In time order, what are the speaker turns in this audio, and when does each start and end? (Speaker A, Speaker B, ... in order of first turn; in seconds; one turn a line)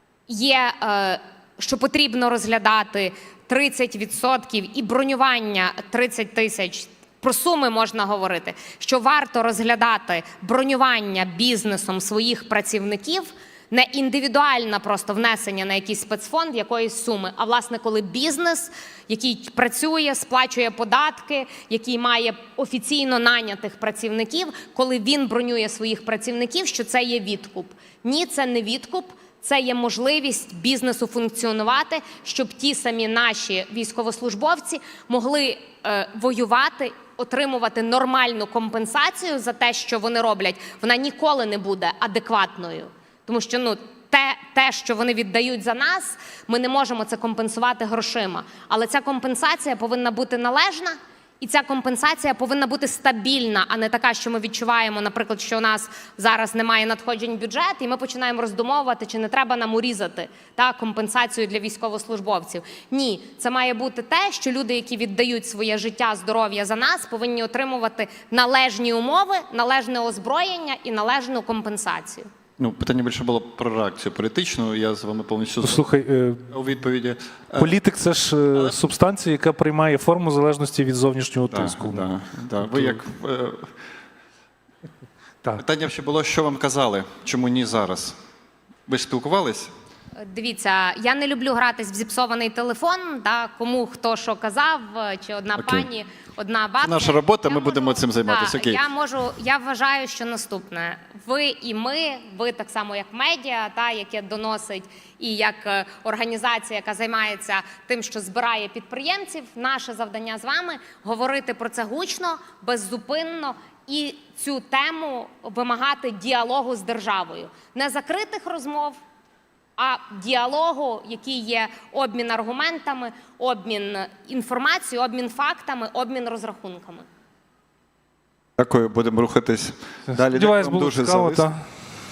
Speaker A: 0.3-72.3
Speaker B: 72.6-75.8
Speaker C: 75.6-76.5
Speaker B: 76.5-77.8
Speaker C: 77.6-82.0
Speaker B: 81.5-83.7
Speaker C: 82.6-83.0
Speaker B: 85.6-88.2
Speaker B: 88.9-89.7
Speaker A: 90.2-119.0
Speaker B: 95.6-95.9
Speaker B: 96.8-98.8
Speaker A: 119.8-127.0
Speaker B: 128.6-131.5
Speaker C: 130.1-131.7